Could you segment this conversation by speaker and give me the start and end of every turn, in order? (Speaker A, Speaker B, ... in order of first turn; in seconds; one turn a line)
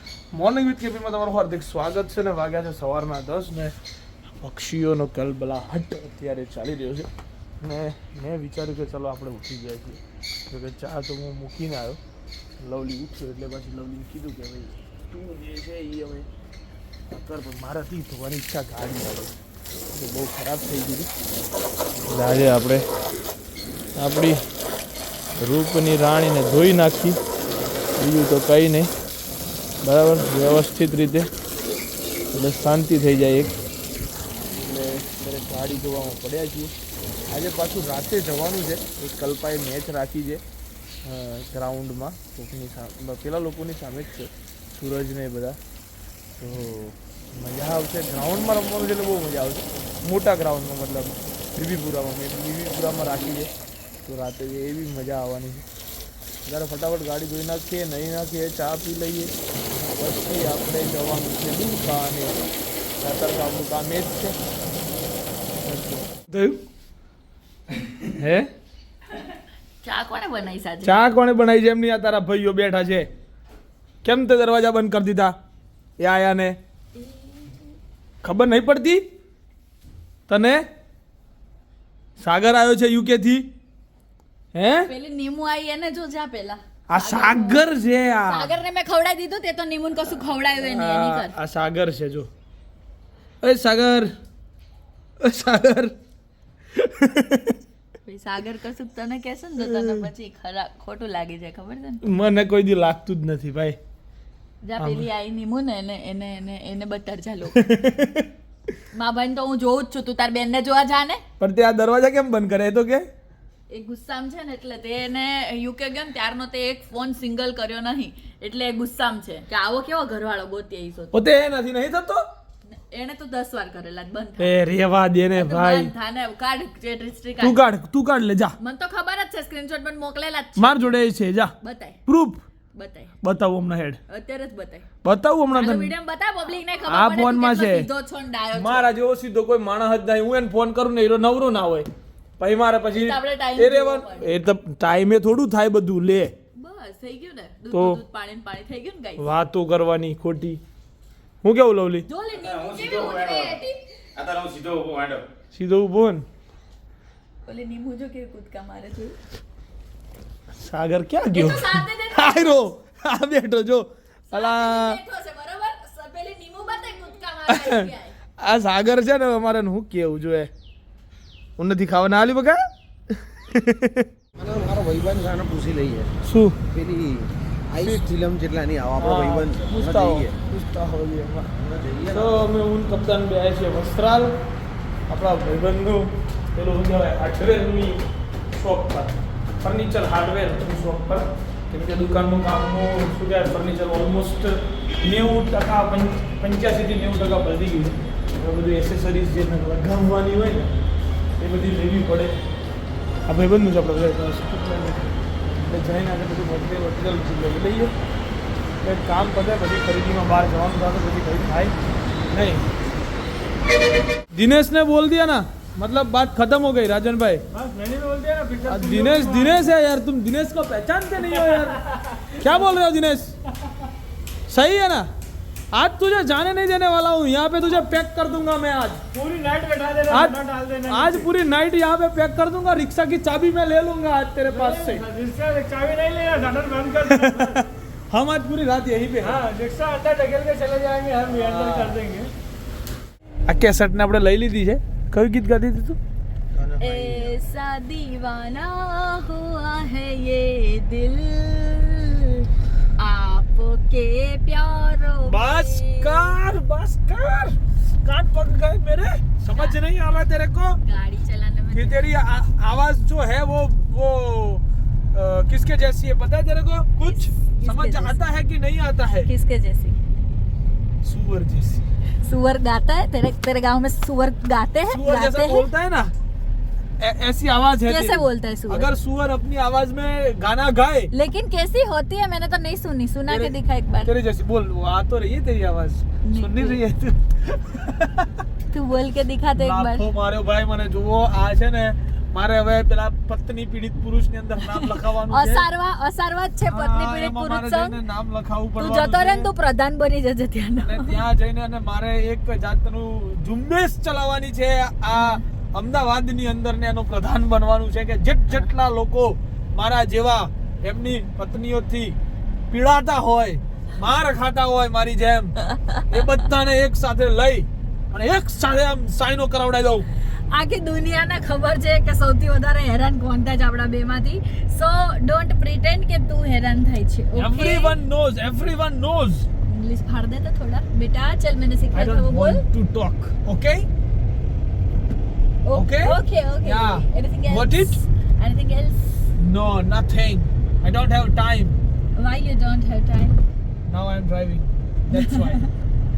Speaker A: 0.3-3.8
Speaker A: 4.4-7.1
Speaker A: 7.6-12.0
Speaker A: 12.6-16.3
Speaker A: 17.1-19.4
Speaker A: 19.9-21.1
Speaker A: 22.1-22.9
Speaker A: 24.0-24.4
Speaker A: 25.4-27.2
Speaker A: 28.0-28.9
Speaker A: 29.8-31.3
Speaker A: 32.3-33.6
Speaker A: 34.6-36.7
Speaker A: 37.3-40.4
Speaker A: 41.0-45.6
Speaker A: 46.4-53.5
Speaker A: 54.0-55.6
Speaker A: 56.5-62.4
Speaker A: 63.0-64.3
Speaker A: 65.6-66.6
Speaker A: 68.2-68.5
Speaker B: 69.8-71.0
Speaker A: 70.8-73.1
Speaker A: 74.0-75.4
Speaker A: 76.0-76.6
Speaker B: 77.0-77.7
Speaker A: 78.2-79.0
Speaker A: 80.3-80.6
Speaker A: 82.2-83.5
Speaker A: 84.5-84.9
Speaker B: 84.9-87.6
Speaker A: 86.9-88.5
Speaker B: 88.3-91.3
Speaker A: 90.5-92.3
Speaker A: 93.4-94.1
Speaker A: 95.2-95.9
Speaker A: 96.8-97.5
Speaker B: 98.0-102.0
Speaker A: 102.0-103.8
Speaker B: 104.6-107.7
Speaker A: 104.8-105.1
Speaker A: 107.6-108.3
Speaker B: 108.9-111.2
Speaker A: 111.4-113.1
Speaker B: 113.7-121.2
Speaker A: 121.1-122.2
Speaker B: 122.7-124.6
Speaker A: 124.4-125.9
Speaker B: 125.3-127.6
Speaker A: 127.4-128.6
Speaker B: 128.6-131.0
Speaker A: 130.6-131.5
Speaker B: 131.6-132.0
Speaker A: 132.1-132.4
Speaker B: 132.7-133.2
Speaker A: 133.2-134.0
Speaker B: 134.1-134.9
Speaker A: 135.0-135.9
Speaker B: 135.5-138.9
Speaker A: 136.9-137.9
Speaker A: 138.5-141.9
Speaker A: 142.4-146.3
Speaker B: 142.9-144.3
Speaker B: 146.6-149.3
Speaker A: 147.7-148.0
Speaker A: 149.2-150.6
Speaker A: 151.4-152.1
Speaker B: 152.1-153.8
Speaker C: 152.3-153.6
Speaker C: 154.2-155.2
Speaker A: 155.5-156.2
Speaker B: 157.4-159.2
Speaker A: 160.6-165.0
Speaker B: 161.3-162.7
Speaker B: 164.3-168.2
Speaker A: 167.5-170.5
Speaker A: 171.6-172.6
Speaker A: 173.4-174.1
Speaker D: 174.6-175.8
Speaker A: 176.2-176.6
Speaker D: 176.8-177.1
Speaker A: 177.7-178.0
Speaker D: 177.8-180.3
Speaker A: 179.0-181.5
Speaker D: 181.7-182.4
Speaker A: 182.1-184.3
Speaker A: 185.1-200.7
Speaker A: 201.4-202.4
Speaker A: 203.3-207.9
Speaker A: 208.8-211.8
Speaker A: 212.3-212.7
Speaker A: 214.3-217.5
Speaker E: 217.5-219.7
Speaker A: 218.7-221.8
Speaker E: 221.3-221.7
Speaker A: 222.4-223.4
Speaker A: 224.5-225.1
Speaker A: 225.7-229.1
Speaker E: 229.1-231.3
Speaker A: 230.1-235.1
Speaker E: 234.5-237.6
Speaker A: 237.0-239.4
Speaker E: 239.2-242.3
Speaker A: 241.3-242.1
Speaker A: 243.5-246.0
Speaker D: 246.6-247.3
Speaker B: 246.8-252.5
Speaker B: 253.0-256.3
Speaker A: 255.2-260.8
Speaker B: 259.5-259.8
Speaker B: 260.9-262.1
Speaker A: 261.7-269.3
Speaker B: 267.0-268.2
Speaker B: 269.2-270.0
Speaker A: 271.0-271.8
Speaker B: 272.2-275.7
Speaker A: 274.9-276.1
Speaker A: 277.0-281.1
Speaker B: 277.9-278.9
Speaker B: 281.1-284.1
Speaker A: 283.3-283.5
Speaker A: 284.1-288.3
Speaker B: 286.2-286.8
Speaker B: 288.7-290.1
Speaker A: 289.6-295.7
Speaker B: 294.6-298.0
Speaker A: 296.6-299.5
Speaker B: 298.8-301.2
Speaker A: 300.8-312.2
Speaker B: 305.1-305.4
Speaker A: 312.7-315.5
Speaker B: 315.7-316.0
Speaker A: 316.1-320.1
Speaker B: 320.4-328.0
Speaker A: 327.3-329.5
Speaker B: 329.7-332.6
Speaker A: 331.9-333.9
Speaker B: 335.6-339.3
Speaker A: 335.7-337.9
Speaker A: 339.4-341.8
Speaker B: 342.1-343.4
Speaker A: 343.9-345.7
Speaker B: 345.1-345.7